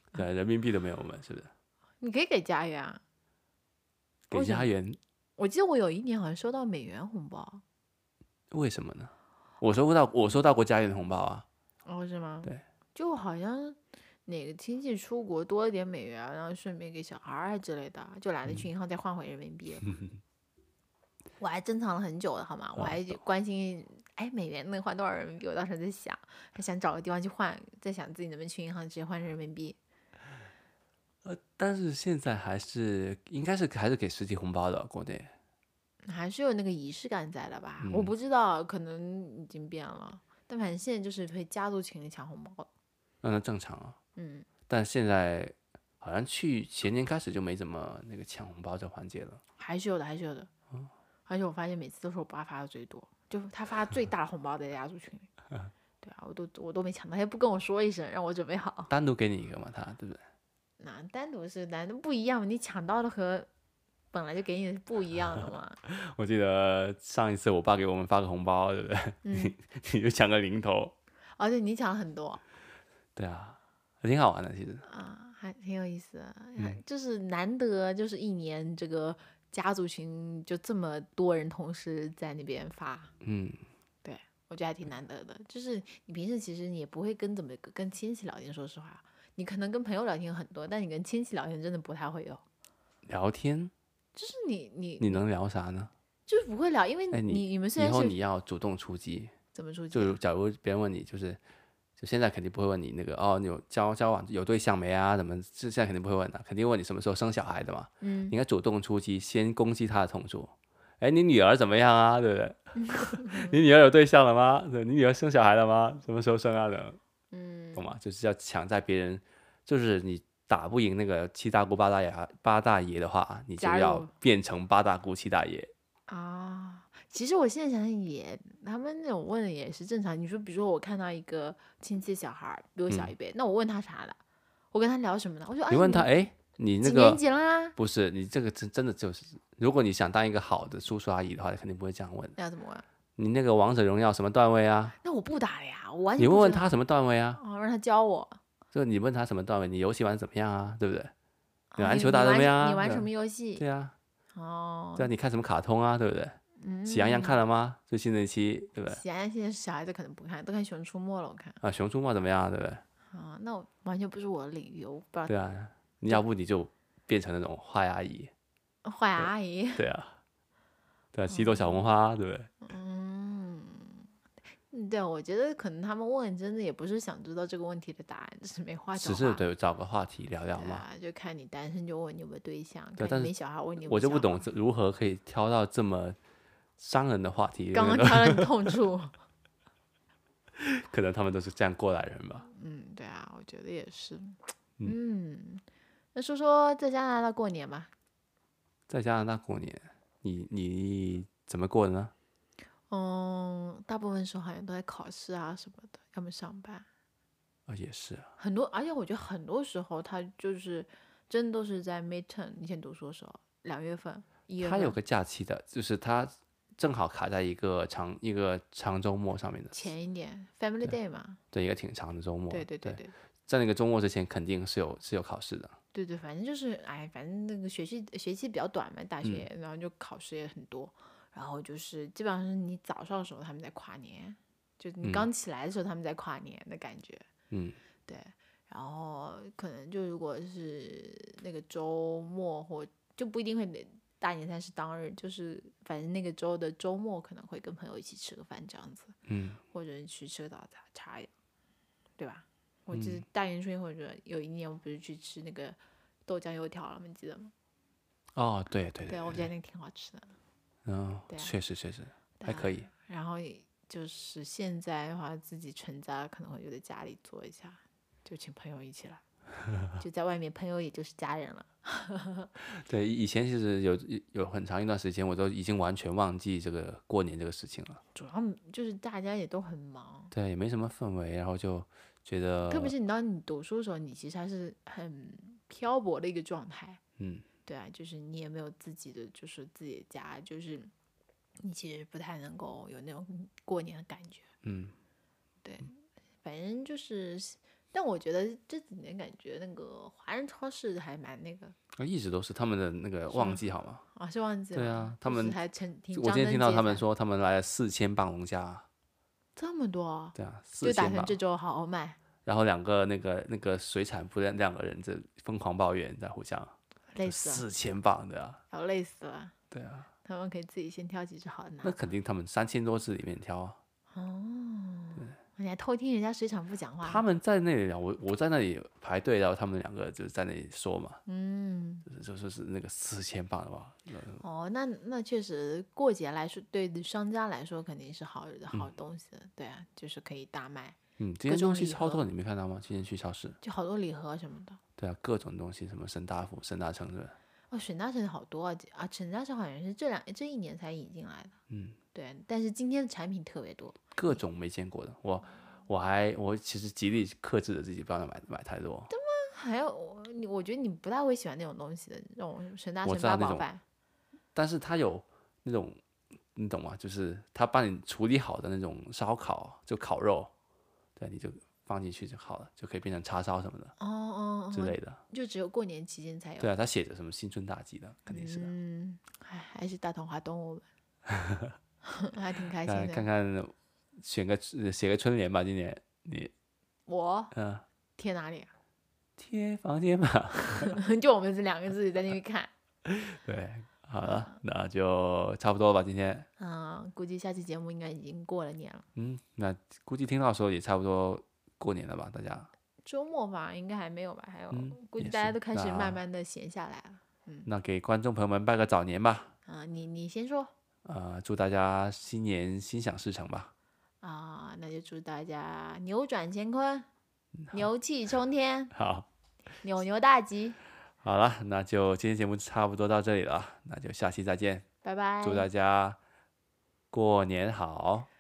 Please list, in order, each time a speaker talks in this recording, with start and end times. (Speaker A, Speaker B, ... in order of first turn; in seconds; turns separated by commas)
Speaker A: 0.1-1.5, Speaker B: 2.0-3.0, Speaker A: 4.3-5.0, Speaker B: 4.3-4.7, Speaker B: 5.4-7.6, Speaker A: 8.5-11.4, Speaker B: 11.8-19.9, Speaker B: 21.4-29.8, Speaker A: 22.8-23.2, Speaker A: 31.2-35.3, Speaker B: 36.0-42.7, Speaker A: 37.8-38.1, Speaker A: 43.2-44.0, Speaker B: 44.2-44.5, Speaker A: 44.7-49.4, Speaker B: 49.6-50.5, Speaker B: 51.3-55.3, Speaker B: 56.0-58.9, Speaker A: 58.9-60.2, Speaker B: 60.8-63.5, Speaker B: 64.1-65.8, Speaker A: 65.8-70.9, Speaker B: 69.2-69.6, Speaker B: 71.4-72.4, Speaker A: 73.2-74.8, Speaker B: 74.8-83.1, Speaker A: 83.2-83.6, Speaker B: 84.0-92.4, Speaker A: 93.1-93.7, Speaker B: 94.2-95.2, Speaker A: 95.0-95.9, Speaker B: 96.3-98.2, Speaker A: 97.1-99.3, Speaker B: 99.5-100.2, Speaker A: 99.9-101.4, Speaker A: 102.0-117.0, Speaker B: 108.0-108.4, Speaker B: 112.8-113.5, Speaker B: 117.3-118.0, Speaker A: 117.8-125.7, Speaker B: 123.6-124.1, Speaker B: 126.1-134.2, Speaker B: 134.7-136.1, Speaker A: 135.7-137.2, Speaker B: 136.8-137.8, Speaker A: 137.8-142.3, Speaker B: 142.4-142.8, Speaker A: 143.2-145.0, Speaker B: 145.0-146.7, Speaker A: 146.2-147.4, Speaker B: 147.3-148.4, Speaker A: 148.7-151.1, Speaker B: 151.7-153.6, Speaker A: 151.8-153.9, Speaker B: 154.3-155.1, Speaker A: 155.0-159.0, Speaker B: 156.6-157.4, Speaker B: 158.9-161.6, Speaker A: 161.6-162.8, Speaker B: 163.1-165.3, Speaker A: 165.3-168.3, Speaker B: 168.8-169.8, Speaker A: 169.2-170.2, Speaker A: 171.1-172.5, Speaker B: 171.3-171.9, Speaker B: 172.6-174.1, Speaker B: 174.7-179.4, Speaker A: 179.0-180.8, Speaker B: 180.6-184.4, Speaker A: 183.0-186.2, Speaker A: 186.8-188.7, Speaker B: 187.7-189.1, Speaker A: 190.6-192.5, Speaker B: 192.5-195.6, Speaker B: 196.1-197.9, Speaker A: 198.9-202.1, Speaker B: 202.9-206.9, Speaker A: 207.7-208.3, Speaker B: 208.4-215.0, Speaker A: 214.6-219.9, Speaker B: 219.7-221.4, Speaker A: 221.5-225.8, Speaker B: 222.5-223.1, Speaker B: 225.9-237.2, Speaker A: 235.0-235.3, Speaker A: 237.5-237.8, Speaker B: 238.1-249.2, Speaker A: 249.3-249.6, Speaker B: 249.7-251.3, Speaker B: 252.2-257.5, Speaker A: 252.9-253.2, Speaker A: 258.4-259.5, Speaker B: 259.1-260.3, Speaker A: 260.9-262.9, Speaker B: 261.3-261.5, Speaker B: 262.4-269.2, Speaker B: 270.0-272.5, Speaker A: 272.7-278.0, Speaker B: 278.1-280.3, Speaker A: 280.3-282.9, Speaker B: 282.7-287.0, Speaker A: 287.2-287.5, Speaker B: 287.7-290.9, Speaker B: 291.6-294.5, Speaker A: 294.6-294.9, Speaker B: 295.6-301.8, Speaker A: 302.0-304.0, Speaker B: 303.3-303.6, Speaker B: 304.1-307.1, Speaker A: 304.7-305.6, Speaker A: 306.1-308.9, Speaker B: 309.6-312.2, Speaker A: 310.4-311.4, Speaker A: 312.4-316.7, Speaker B: 317.1-317.7, Speaker A: 317.2-318.6, Speaker B: 318.7-319.5, Speaker A: 319.7-320.1, Speaker B: 320.2-322.0, Speaker A: 321.8-323.8, Speaker B: 324.1-327.2, Speaker A: 327.0-331.2, Speaker B: 331.3-332.1, Speaker A: 332.1-334.4, Speaker B: 334.4-342.2, Speaker A: 341.2-343.6, Speaker B: 343.6-344.8, Speaker A: 345.0-347.4, Speaker B: 347.7-351.6, Speaker A: 351.7-352.0, Speaker B: 352.1-354.4, Speaker A: 354.2-359.1, Speaker B: 359.1-363.8, Speaker A: 363.1-363.7, Speaker A: 364.6-366.0, Speaker A: 366.5-370.5, Speaker A: 371.2-373.9, Speaker B: 374.0-376.7, Speaker A: 374.7-375.2, Speaker A: 376.6-378.7, Speaker B: 378.3-380.9, Speaker A: 381.3-381.8, Speaker B: 382.1-383.3, Speaker A: 382.9-386.5, Speaker B: 387.1-387.5, Speaker A: 387.5-387.9, Speaker B: 388.2-388.7, Speaker A: 389.4-391.0, Speaker B: 390.8-392.7, Speaker A: 393.1-396.5, Speaker B: 394.2-394.6, Speaker B: 396.6-399.1, Speaker A: 399.2-402.7, Speaker B: 403.1-407.7, Speaker A: 404.7-406.2, Speaker A: 407.7-409.5, Speaker B: 409.7-410.7, Speaker A: 411.1-413.7, Speaker B: 414.2-417.1, Speaker B: 417.7-418.9, Speaker A: 418.9-419.3, Speaker B: 419.8-420.8, Speaker A: 421.2-424.9, Speaker B: 425.0-425.7, Speaker A: 425.4-426.2, Speaker A: 427.1-428.3